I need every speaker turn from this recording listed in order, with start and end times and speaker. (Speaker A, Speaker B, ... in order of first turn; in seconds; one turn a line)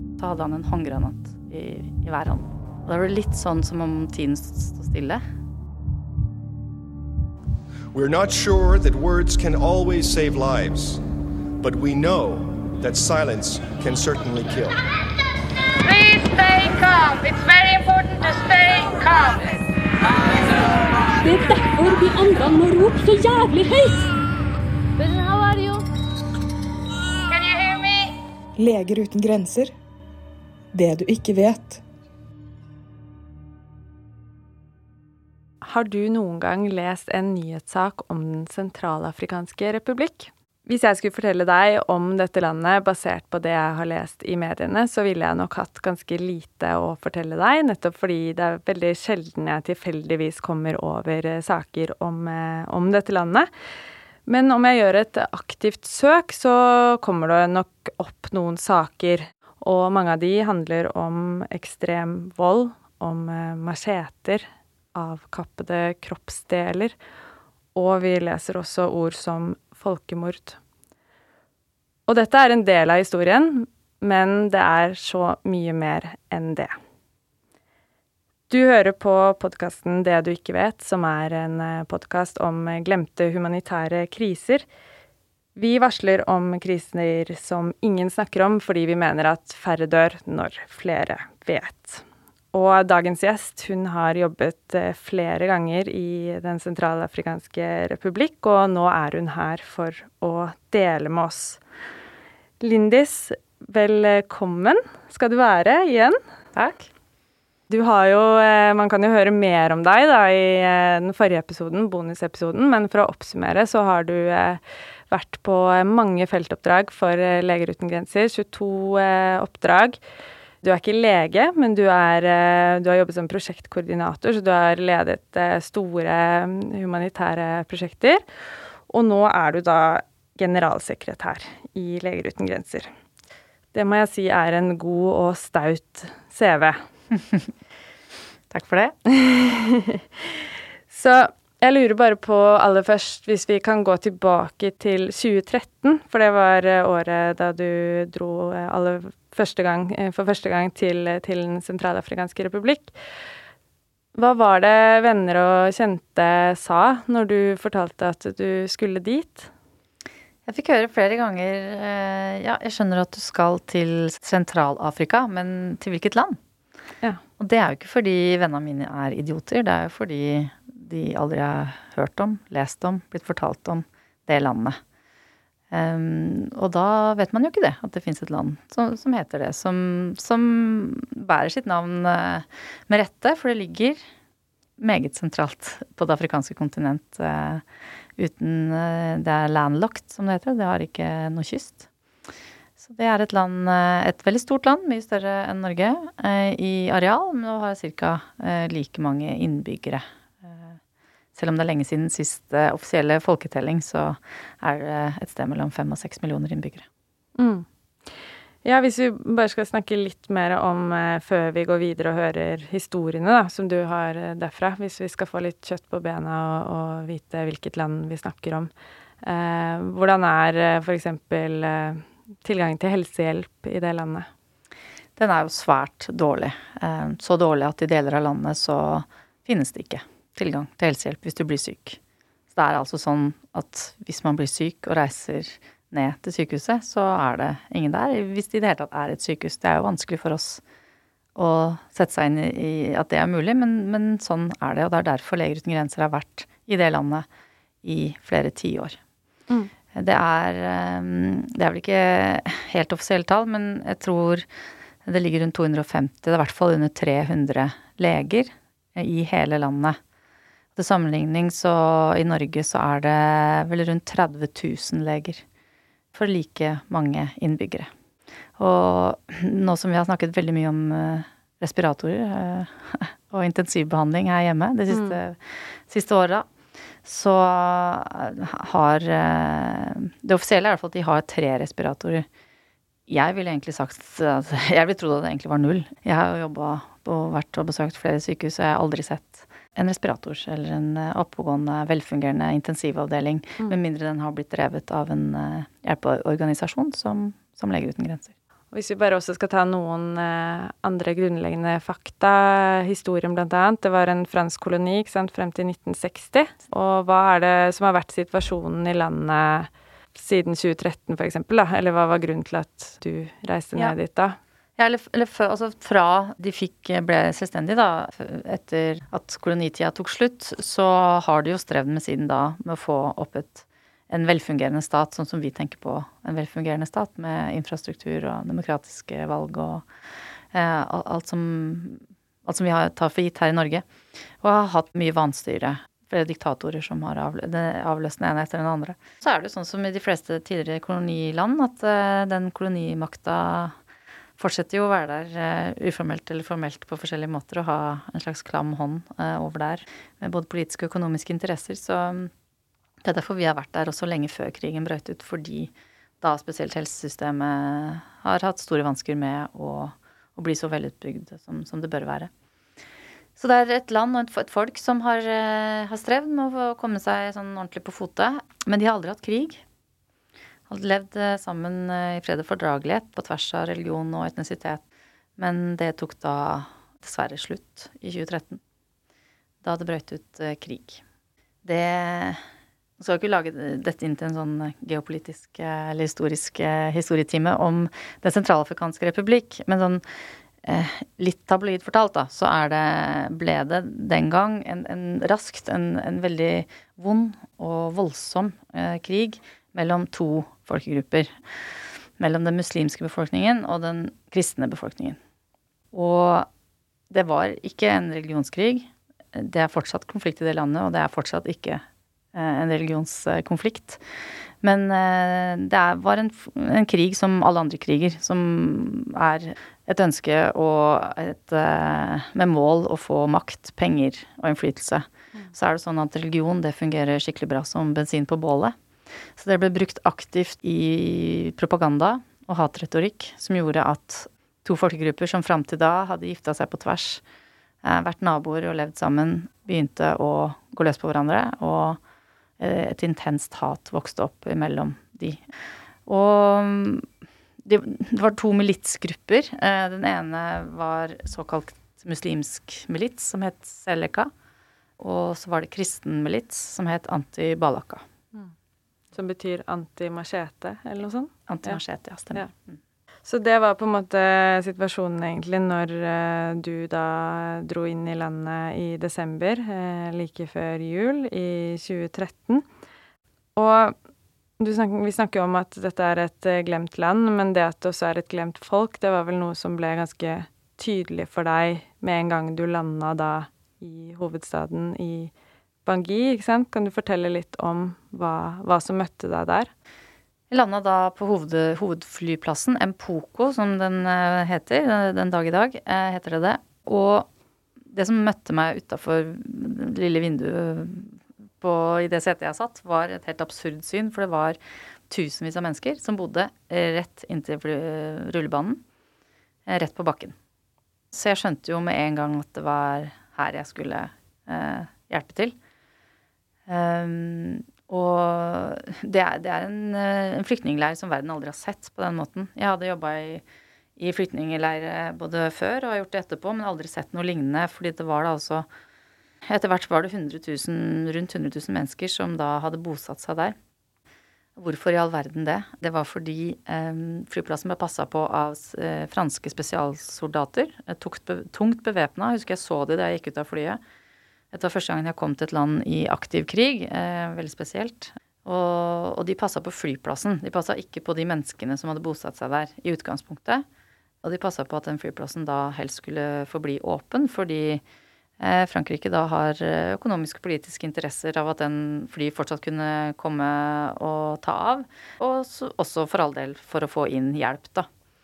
Speaker A: 0.2-5.2
Speaker B: 7.9-11.0
Speaker B: 11.6-14.8
Speaker C: 15.8-19.6
Speaker D: 21.2-24.1
Speaker D: 25.0-25.9
Speaker C: 27.3-28.1
Speaker E: 28.6-29.7
Speaker E: 30.7-31.8
Speaker F: 35.6-53.5
Speaker F: 54.3-67.0
Speaker F: 67.7-70.6
Speaker F: 72.1-76.8
Speaker F: 78.5-84.7
Speaker F: 85.5-101.6
Speaker F: 102.6-106.2
Speaker A: 106.5-106.9
Speaker F: 107.7-120.0
Speaker F: 120.6-128.2
Speaker F: 128.9-132.9
Speaker F: 133.7-136.8
Speaker A: 138.5-138.9
Speaker F: 139.1-152.9
Speaker F: 154.1-159.5
Speaker A: 160.5-166.4
Speaker A: 167.4-174.8
Speaker A: 175.7-184.0
Speaker A: 184.8-187.6
Speaker A: 188.2-191.9
Speaker A: 192.8-200.8
Speaker A: 201.3-206.9
Speaker F: 207.4-207.7
Speaker F: 208.6-218.7
Speaker F: 219.2-224.3
Speaker A: 225.2-232.0
Speaker A: 232.5-240.6
Speaker A: 241.4-247.3
Speaker A: 247.8-249.0
Speaker A: 249.9-254.4
Speaker A: 255.1-260.0
Speaker A: 260.8-265.4
Speaker A: 266.1-267.9
Speaker A: 268.6-276.5
Speaker F: 274.9-275.2
Speaker A: 277.1-282.3
Speaker A: 283.1-298.3
Speaker F: 298.7-314.4
Speaker A: 314.8-329.9
Speaker A: 330.5-333.9
Speaker A: 334.4-343.8
Speaker A: 344.4-352.3
Speaker A: 353.1-362.3
Speaker A: 363.4-369.6
Speaker A: 370.7-374.8
Speaker A: 375.4-378.6
Speaker A: 379.6-381.0
Speaker A: 381.6-382.4
Speaker A: 383.0-390.0
Speaker A: 390.6-401.3
Speaker A: 402.2-405.2
Speaker A: 405.9-406.5
Speaker A: 407.1-411.8
Speaker A: 412.3-414.0
Speaker A: 414.6-428.8
Speaker A: 429.4-437.2
Speaker A: 437.8-442.0
Speaker A: 442.6-445.4
Speaker A: 446.1-447.1
Speaker A: 447.6-454.3
Speaker A: 455.0-458.0
Speaker F: 459.1-461.8
Speaker A: 461.5-462.8
Speaker F: 463.2-472.7
Speaker F: 473.6-474.0
Speaker F: 474.6-485.3
Speaker F: 485.9-489.7
Speaker A: 490.5-497.3
Speaker A: 497.9-504.6
Speaker A: 505.1-508.8
Speaker A: 509.7-510.4
Speaker A: 511.1-515.5
Speaker A: 516.7-523.4
Speaker A: 524.0-528.7
Speaker A: 529.5-533.6
Speaker A: 534.6-543.8
Speaker A: 544.5-553.6
Speaker A: 554.2-557.8
Speaker A: 558.4-567.9